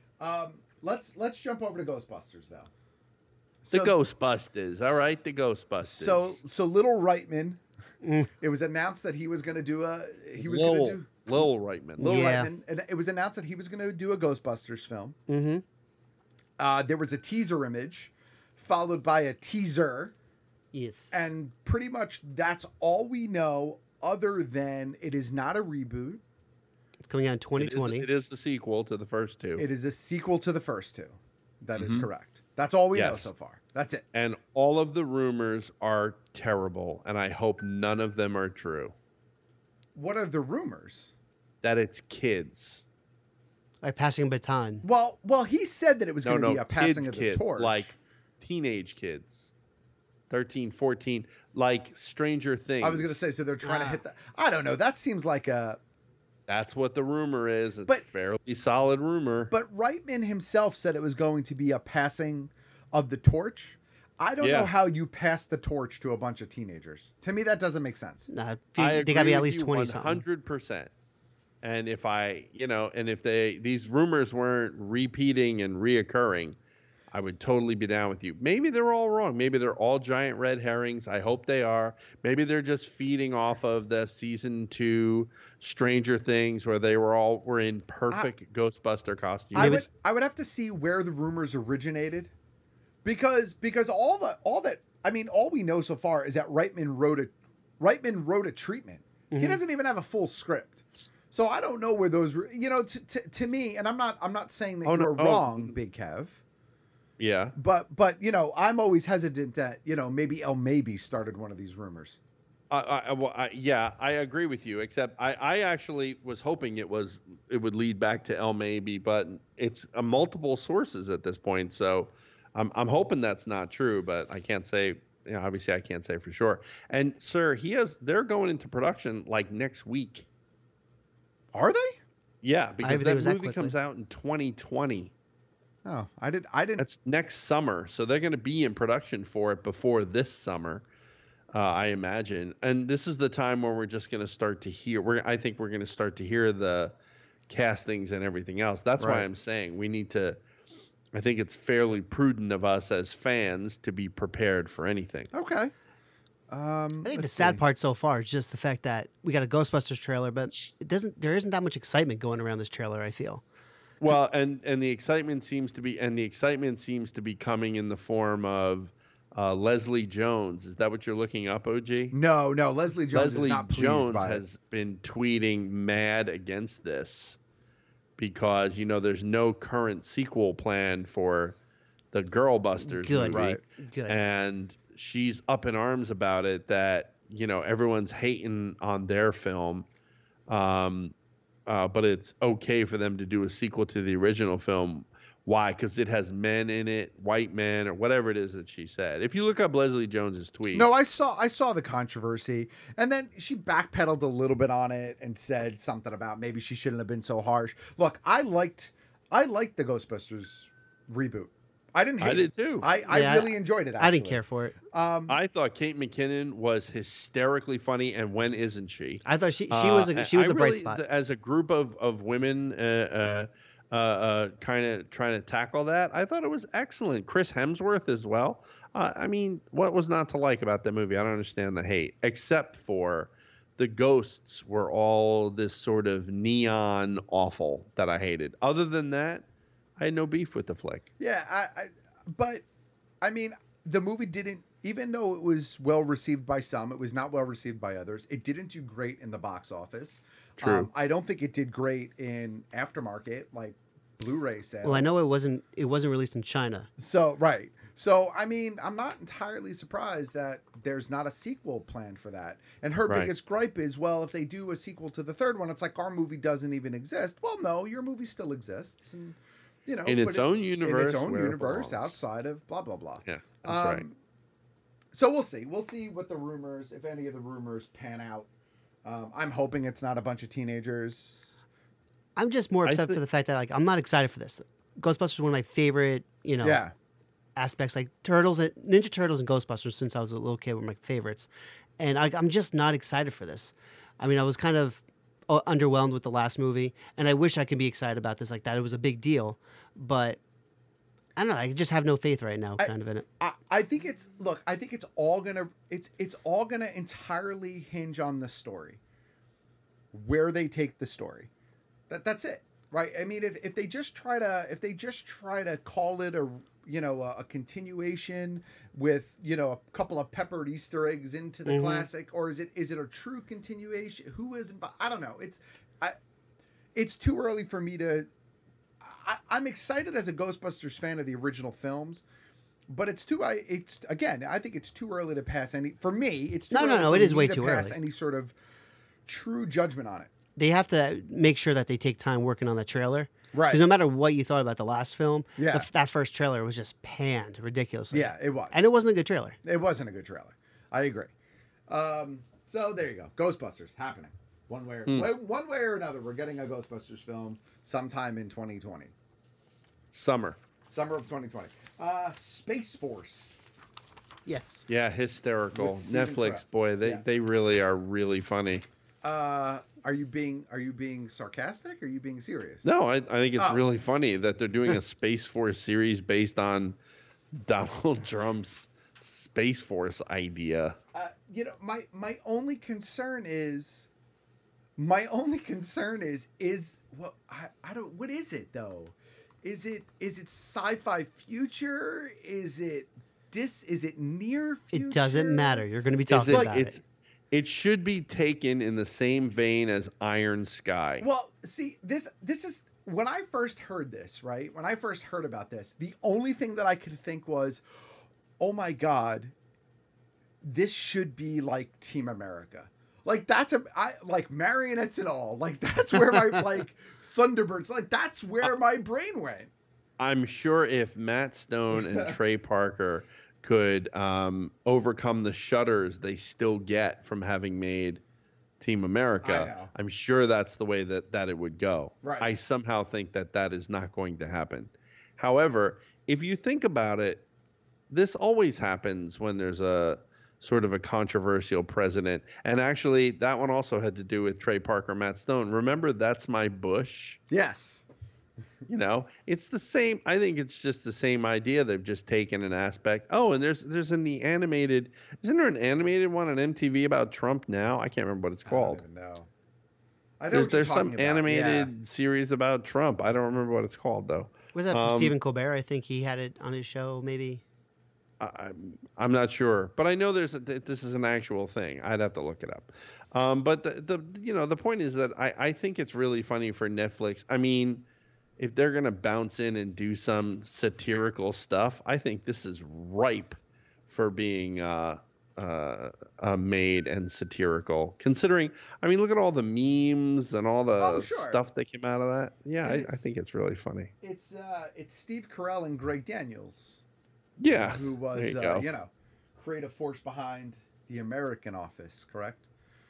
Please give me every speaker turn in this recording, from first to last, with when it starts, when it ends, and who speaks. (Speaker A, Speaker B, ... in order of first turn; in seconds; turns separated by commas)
Speaker A: 0.2-2.7, Speaker A: 3.6-4.0, Speaker B: 3.7-6.4, Speaker A: 4.8-5.2, Speaker A: 5.8-7.6, Speaker C: 8.0-8.3, Speaker A: 8.4-11.2, Speaker B: 10.4-12.1, Speaker A: 12.0-15.2, Speaker C: 12.0-12.5, Speaker C: 15.3-15.6, Speaker A: 16.6-20.1, Speaker C: 20.7-21.1, Speaker A: 21.1-26.2, Speaker C: 27.1-28.1, Speaker B: 27.6-29.6, Speaker A: 29.6-34.0, Speaker B: 31.8-32.1, Speaker B: 32.9-33.3, Speaker B: 34.1-38.9, Speaker A: 39.9-41.1, Speaker B: 41.6-42.8, Speaker C: 43.8-44.8, Speaker A: 44.8-47.9, Speaker B: 46.2-49.5, Speaker B: 50.3-53.2, Speaker A: 52.8-55.8, Speaker C: 53.6-54.0, Speaker B: 56.5-59.5, Speaker A: 59.5-68.3, Speaker B: 64.4-64.7, Speaker C: 68.3-70.2, Speaker B: 68.8-70.9, Speaker B: 71.6-76.6, Speaker B: 77.1-89.8, Speaker A: 89.5-92.3, Speaker C: 89.5-89.8, Speaker A: 93.0-106.4, Speaker C: 99.3-99.6, Speaker B: 104.8-105.7, Speaker B: 107.2-107.5, Speaker A: 107.5-112.2, Speaker B: 112.7-130.2, Speaker A: 131.5-132.0, Speaker B: 132.4-135.1, Speaker C: 132.8-133.7, Speaker A: 135.8-136.8, Speaker B: 136.8-140.8, Speaker B: 141.5-146.9, Speaker B: 147.5-150.4, Speaker A: 149.0-149.3, Speaker B: 151.1-155.3, Speaker A: 155.3-155.7, Speaker A: 156.5-157.6, Speaker C: 157.0-163.4, Speaker B: 164.0-172.1, Speaker A: 172.1-174.4, Speaker B: 173.1-177.4, Speaker B: 178.2-181.6, Speaker B: 182.1-189.8, Speaker C: 182.8-184.2, Speaker A: 183.3-183.6, Speaker B: 190.5-191.1, Speaker B: 191.7-200.9, Speaker A: 200.7-215.4, Speaker B: 212.2-212.9, Speaker C: 213.1-214.8, Speaker B: 215.3-239.4, Speaker C: 219.2-221.0, Speaker B: 240.0-241.1, Speaker A: 241.2-242.6, Speaker A: 243.2-255.3, Speaker B: 250.6-250.9, Speaker C: 254.8-256.9, Speaker A: 257.0-274.2, Speaker B: 270.0-272.2, Speaker B: 273.2-274.0, Speaker A: 275.1-278.5, Speaker A: 279.0-281.6, Speaker C: 282.4-286.8, Speaker B: 282.9-283.2, Speaker A: 286.6-286.9, Speaker C: 287.6-300.4, Speaker C: 301.4-303.3, Speaker A: 302.8-309.0, Speaker A: 310.1-311.5, Speaker A: 312.1-326.2, Speaker C: 321.6-322.1, Speaker A: 326.9-328.3, Speaker A: 329.0-332.2, Speaker A: 332.9-338.6, Speaker C: 336.7-338.0, Speaker A: 339.2-340.3, Speaker C: 340.6-349.6, Speaker A: 343.5-343.8, Speaker A: 345.6-345.9, Speaker A: 348.1-348.9, Speaker A: 349.6-351.3, Speaker A: 351.9-359.1, Speaker B: 360.1-360.6, Speaker A: 360.9-363.6, Speaker C: 364.4-364.9, Speaker B: 364.9-368.9, Speaker A: 365.7-367.2, Speaker A: 369.2-372.9, Speaker B: 372.8-376.9, Speaker A: 373.6-373.8, Speaker B: 377.5-380.9, Speaker A: 381.1-384.1, Speaker A: 385.0-395.9, Speaker C: 394.9-397.0, Speaker B: 396.3-397.0, Speaker A: 396.5-396.8, Speaker B: 397.5-401.2, Speaker A: 401.2-407.8, Speaker A: 408.6-409.5, Speaker A: 410.6-419.7, Speaker B: 420.2-428.2, Speaker A: 422.0-422.3, Speaker B: 428.8-437.4, Speaker A: 429.4-429.9, Speaker A: 432.2-432.5, Speaker B: 438.1-447.4, Speaker A: 447.5-448.1, Speaker B: 448.9-459.0, Speaker A: 458.6-459.5, Speaker A: 460.4-461.9, Speaker B: 460.5-465.4, Speaker C: 464.7-467.6, Speaker B: 468.4-478.0, Speaker B: 478.6-494.1, Speaker A: 490.9-491.6, Speaker A: 492.8-493.3, Speaker A: 494.2-497.0, Speaker B: 497.6-498.9, Speaker A: 497.7-502.6